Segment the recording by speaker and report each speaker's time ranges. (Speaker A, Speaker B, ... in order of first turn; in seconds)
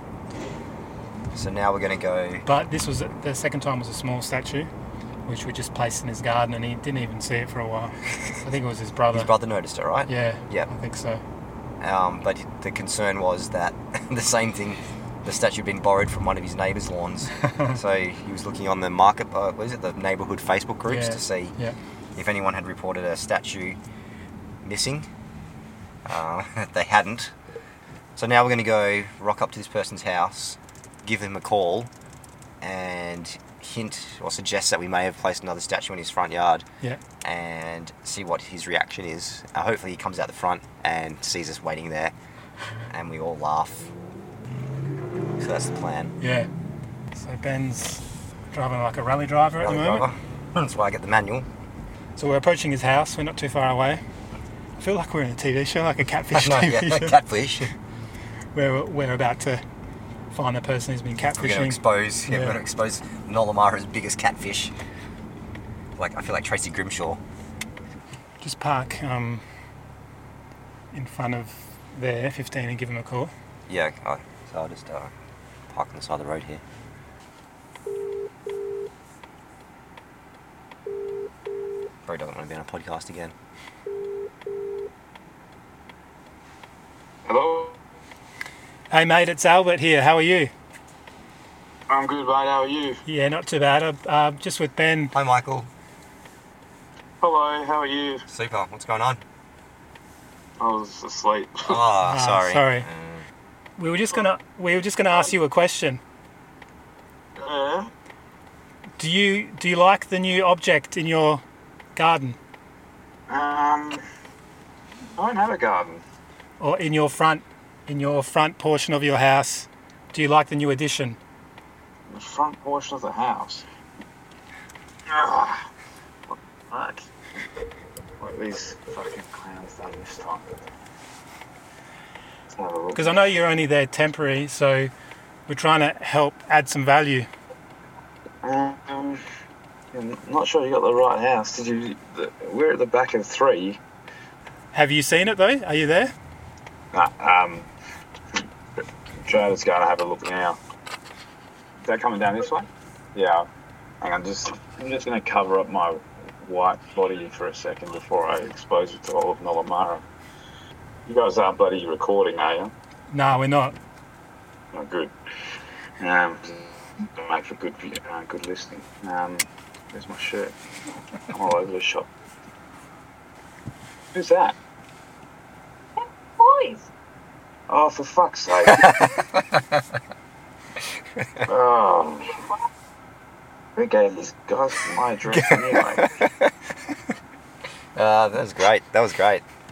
Speaker A: 1.3-2.5, 9.1-10.7, 11.8-21.6, 22.1-23.8, 24.6-25.1, 26.1-27.3, 28.1-31.9, 32.6-36.6, 37.2-42.1, 42.9-43.9, 45.4-46.1, 49.6-51.5, 56.3-57.7, 61.4-64.7, 66.0-67.2, 73.7-75.1, 75.7-76.6, 82.0-83.3, 95.1-95.7, 98.3-99.2, 101.7-103.2, 178.7-179.8, 185.3-186.5, 187.9-189.4
Speaker B: 2.5-4.7, 5.2-9.3, 10.1-11.2, 17.4-17.8, 20.9-21.8, 46.2-46.5, 47.1-50.1, 52.1-54.0, 54.8-57.2, 58.5-59.6, 60.3-62.6, 68.4-69.4, 70.9-73.3, 88.9-90.5, 93.0-95.1, 102.0-102.9, 103.8-106.0, 109.0-111.4, 112.0-112.4, 116.6-121.2, 132.9-134.9, 135.5-137.3, 144.7-146.1, 163.1-163.8
Speaker C: 87.2-87.8, 91.9-93.0, 97.2-98.2, 100.6-101.8, 107.4-107.9, 113.3-114.0, 115.2-116.0, 122.1-123.6, 125.1-125.7, 126.3-127.1, 128.2-130.4, 132.5-133.2, 138.4-139.2, 139.9-143.8, 146.9-147.7, 149.2-150.6, 151.8-153.5, 154.0-160.0, 161.1-162.7, 164.7-165.1, 166.0-170.6, 171.3-172.1, 174.1-174.6, 176.4-176.9, 177.7-179.3, 181.4-182.5, 183.8-186.2